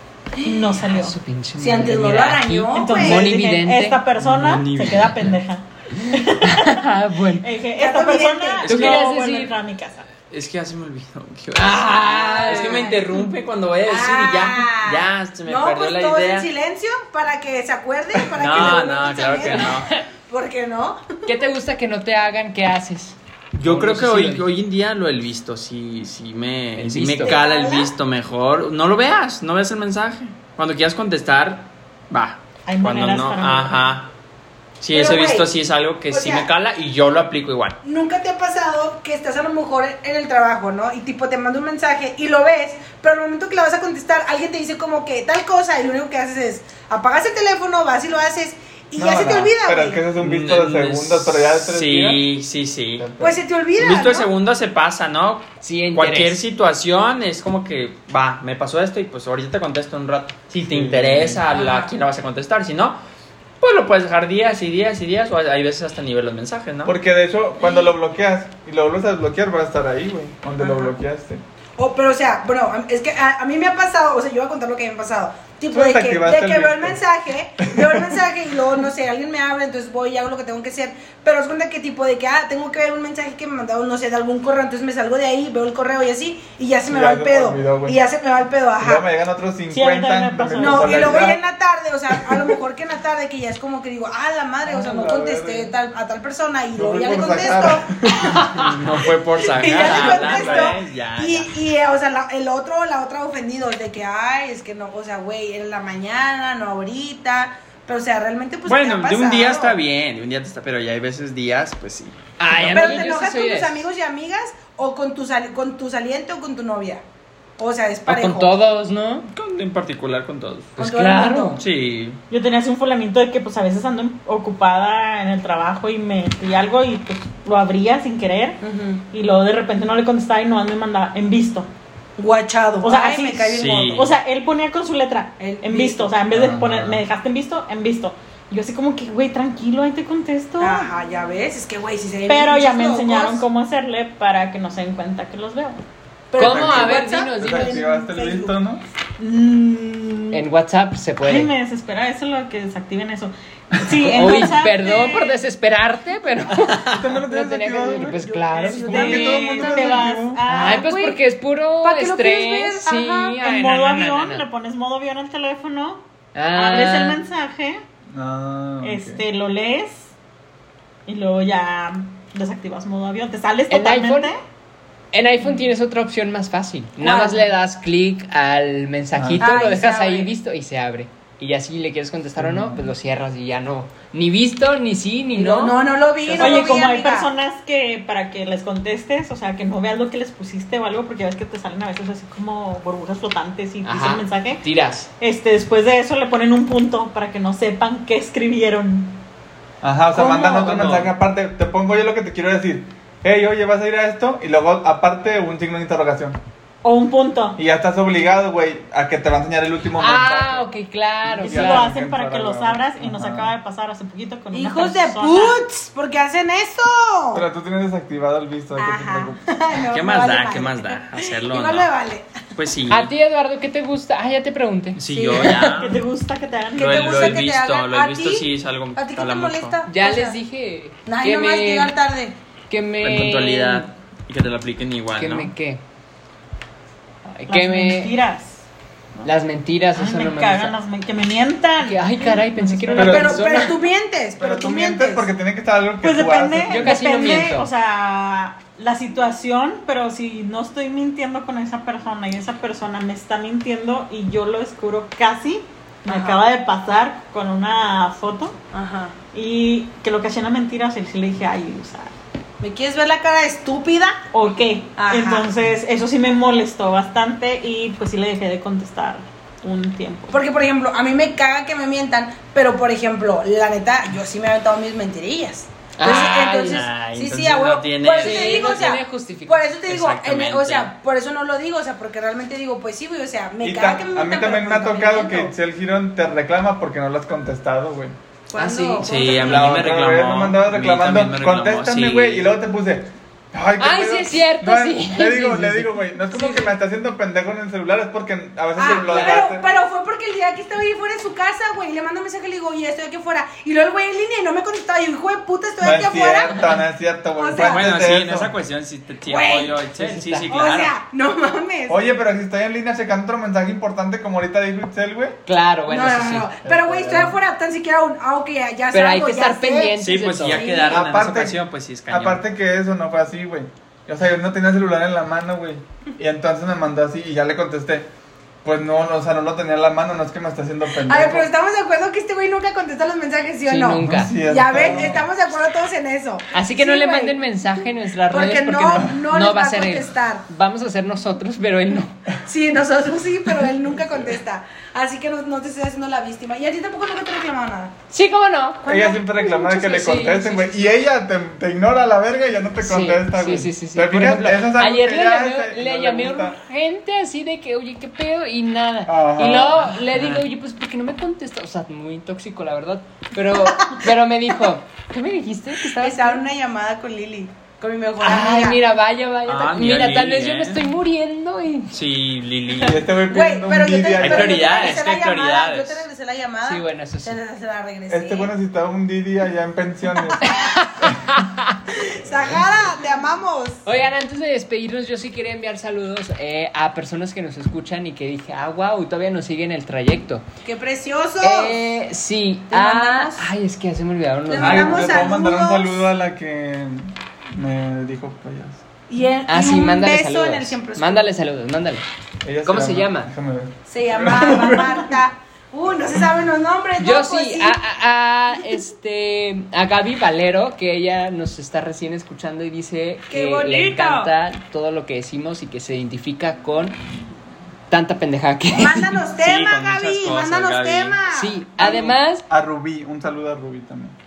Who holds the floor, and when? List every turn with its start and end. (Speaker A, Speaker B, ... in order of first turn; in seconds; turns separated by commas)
Speaker A: 0.4-0.8, Speaker B: 0.4-1.2, Speaker C: 0.8-4.0, Speaker A: 1.6-3.3, Speaker B: 2.7-10.1, Speaker D: 4.2-5.3, Speaker C: 6.1-7.5, Speaker A: 7.8-9.0, Speaker C: 8.6-9.5, Speaker D: 10.3-16.5, Speaker C: 11.5-13.0, Speaker A: 12.0-21.0, Speaker D: 18.3-19.9, Speaker C: 19.5-20.0, Speaker C: 21.2-24.5, Speaker D: 23.5-34.1, Speaker C: 26.8-27.4, Speaker A: 27.2-27.9, Speaker B: 32.6-34.0, Speaker D: 34.8-37.8, Speaker A: 34.9-35.5, Speaker A: 36.1-36.5, Speaker A: 37.8-50.0, Speaker E: 49.0-52.3, Speaker D: 50.2-53.0, Speaker E: 53.0-53.4, Speaker A: 53.2-54.3, Speaker D: 53.8-63.0, Speaker C: 55.6-56.4, Speaker E: 60.6-61.4, Speaker A: 61.5-61.9, Speaker D: 63.6-67.0, Speaker E: 66.8-71.4, Speaker A: 67.6-67.9, Speaker A: 70.6-70.9, Speaker A: 71.8-89.0, Speaker E: 75.7-77.0, Speaker E: 77.7-78.2, Speaker E: 86.8-88.0, Speaker E: 88.8-91.4, Speaker B: 89.7-91.3, Speaker A: 90.6-97.9, Speaker E: 94.6-95.7, Speaker E: 96.8-98.7, Speaker D: 98.6-101.5, Speaker A: 99.4-109.8, Speaker E: 99.8-100.7, Speaker D: 108.7-113.0, Speaker C: 112.4-113.8, Speaker A: 112.7-117.0, Speaker A: 117.6-118.5, Speaker C: 118.1-119.2, Speaker D: 119.3-120.7, Speaker C: 120.8-121.6, Speaker A: 120.8-121.5, Speaker D: 121.6-122.2, Speaker B: 122.3-128.6, Speaker A: 128.6-129.0, Speaker B: 129.1-131.7, Speaker A: 132.2-134.1, Speaker B: 132.8-140.9, Speaker D: 133.6-134.1, Speaker A: 135.4-136.2, Speaker E: 136.3-137.0, Speaker A: 140.6-143.4, Speaker B: 142.2-145.8, Speaker A: 146.3-148.6, Speaker C: 146.3-147.8, Speaker E: 146.4-148.8, Speaker B: 149.2-150.4, Speaker C: 150.3-151.5, Speaker B: 151.2-155.4, Speaker C: 154.1-159.4, Speaker E: 156.9-160.4, Speaker A: 157.8-159.9, Speaker B: 158.9-161.1, Speaker C: 160.5-164.4, Speaker A: 160.5-161.1, Speaker A: 161.8-163.3, Speaker B: 163.3-166.0, Speaker C: 166.3-167.2, Speaker B: 166.5-167.8, Speaker E: 168.1-169.2, Speaker B: 168.8-170.1, Speaker B: 171.1-174.4, Speaker C: 173.7-174.3, Speaker C: 175.1-185.7, Speaker A: 177.0-177.4, Speaker E: 179.1-179.4, Speaker A: 179.4-180.3, Speaker E: 182.4-182.9, Speaker A: 185.3-187.3, Speaker C: 186.3-186.8, Speaker B: 186.4-194.6, Speaker C: 193.8-195.1, Speaker B: 195.2-199.2, Speaker E: 199.8-206.4, Speaker C: 200.1-201.1, Speaker B: 206.8-207.6, Speaker E: 207.6-210.7, Speaker C: 210.0-211.9, Speaker E: 211.2-213.5, Speaker B: 211.4-215.6, Speaker A: 214.5-217.4, Speaker E: 217.3-219.4, Speaker A: 218.8-222.2, Speaker D: 219.9-221.9, Speaker D: 222.6-223.1, Speaker C: 222.9-225.0, Speaker D: 224.9-226.0, Speaker A: 225.1-225.7, Speaker B: 225.5-227.4, Speaker A: 226.7-230.4, Speaker D: 226.8-229.8, Speaker C: 229.8-231.9, Speaker A: 231.1-232.3, Speaker C: 232.7-233.9, Speaker D: 233.0-235.5, Speaker C: 235.2-235.8, Speaker C: 237.3-238.1, Speaker B: 237.5-239.3, Speaker C: 239.2-240.7, Speaker B: 239.9-243.6, Speaker C: 241.8-243.7, Speaker E: 242.9-243.3, Speaker A: 243.0-245.3, Speaker E: 244.4-246.9, Speaker B: 246.0-258.5, Speaker C: 246.7-247.7, Speaker A: 256.1-256.4, Speaker A: 258.7-259.1, Speaker B: 259.3-262.1, Speaker A: 262.6-264.2, Speaker B: 264.3-270.4, Speaker A: 264.9-265.5, Speaker A: 270.3-285.5, Speaker C: 276.0-276.8, Speaker D: 276.7-278.9, Speaker C: 278.2-279.7, Speaker D: 279.9-280.9, Speaker E: 283.6-288.1, Speaker A: 288.5-289.9, Speaker C: 288.6-289.1, Speaker D: 289.0-292.5, Speaker E: 289.4-299.6, Speaker C: 293.8-296.8, Speaker A: 298.8-306.8, Speaker E: 305.8-308.5, Speaker A: 307.4-307.8, Speaker D: 307.6-310.9, Speaker A: 309.2-309.8, Speaker C: 310.0-310.6, Speaker A: 310.5-312.0, Speaker E: 311.9-315.4, Speaker C: 315.4-317.3, Speaker A: 315.9-321.1, Speaker E: 316.6-317.3, Speaker C: 318.9-320.6, Speaker D: 320.0-322.4, Speaker E: 320.9-328.1, Speaker E: 328.6-331.5, Speaker A: 330.9-337.4, Speaker C: 333.6-334.3, Speaker E: 334.0-335.3, Speaker C: 336.5-342.1, Speaker A: 338.3-340.4, Speaker A: 342.4-347.9, Speaker C: 348.1-348.8, Speaker A: 348.8-349.4, Speaker E: 348.8-356.6, Speaker C: 349.4-350.9, Speaker C: 352.8-366.4, Speaker E: 359.1-360.0, Speaker D: 360.0-360.4, Speaker A: 363.6-364.1, Speaker A: 366.0-368.8, Speaker C: 368.2-371.9, Speaker D: 369.4-370.8, Speaker D: 371.9-373.0, Speaker E: 372.8-375.0, Speaker A: 373.1-378.5, Speaker D: 374.1-376.1, Speaker C: 376.6-377.4, Speaker E: 378.1-381.1, Speaker C: 380.4-381.6, Speaker A: 382.0-383.8, Speaker C: 383.8-390.4, Speaker A: 390.6-391.8, Speaker C: 391.4-395.3, Speaker A: 392.7-393.5, Speaker A: 394.5-396.1, Speaker E: 394.6-398.8, Speaker A: 399.1-401.3, Speaker C: 399.5-402.0, Speaker E: 402.4-405.1, Speaker C: 402.6-403.3, Speaker A: 403.9-407.8, Speaker C: 407.0-417.0, Speaker A: 413.3-414.3, Speaker C: 417.9-419.2, Speaker A: 418.7-422.1, Speaker D: 419.4-421.2, Speaker C: 421.3-422.4, Speaker E: 422.5-424.1